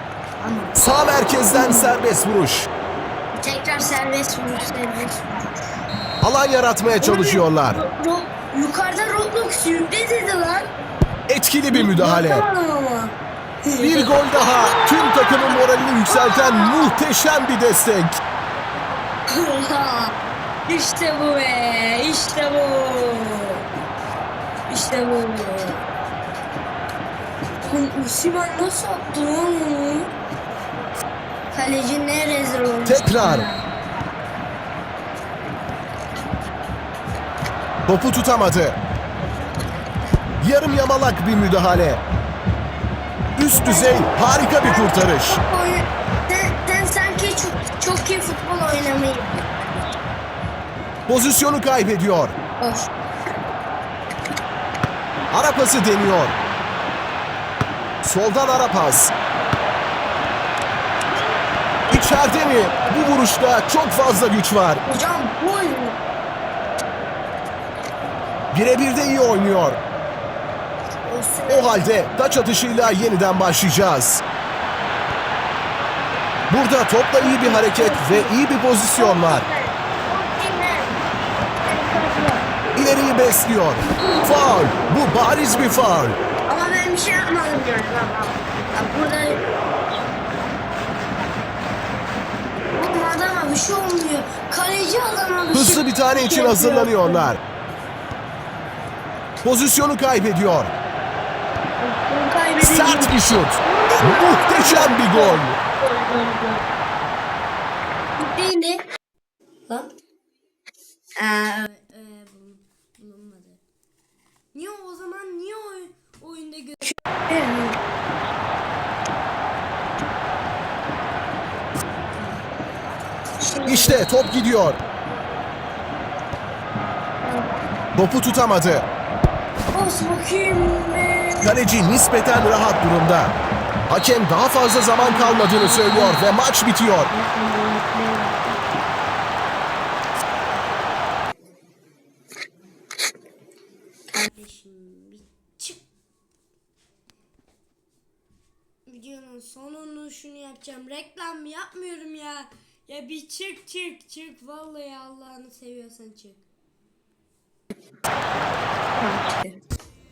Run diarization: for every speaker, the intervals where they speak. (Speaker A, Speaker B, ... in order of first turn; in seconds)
Speaker A: 0.4-0.8, 1.5-2.0, 3.4-5.5, 7.0-10.7, 11.7-13.1, 13.7-17.1, 19.3-20.2, 20.7-23.6, 24.7-25.9, 27.6-30.1, 31.5-33.6, 43.5-49.9, 52.6-52.9, 61.9-63.1, 64.8-66.0, 71.0-72.0, 77.2-78.3, 79.0-81.0, 81.6-82.5, 83.8-85.9, 86.5-89.4, 92.8-97.3, 101.8-106.6, 108.2-108.8, 111.2-113.6, 114.5-117.8, 122.2-122.4, 123.4-124.1, 127.2-127.5, 129.7-131.5, 135.0-136.2, 137.1-138.6, 144.1-145.8, 148.9-156.4, 159.0-159.6
Speaker B: 0.8-2.7, 6.2-7.8, 11.3-12.4, 13.8-18.2, 32.9-33.5, 37.9-38.8, 40.4-42.0, 43.4-45.4, 51.1-52.4, 55.3-56.4, 58.0-59.1, 61.9-64.8, 68.5-69.8, 71.5-74.2, 76.5-79.4, 82.8-86.2, 95.5-97.4, 99.4-100.7, 102.6-105.6, 123.7-124.8, 128.0-128.9, 131.4-133.3, 133.9-137.1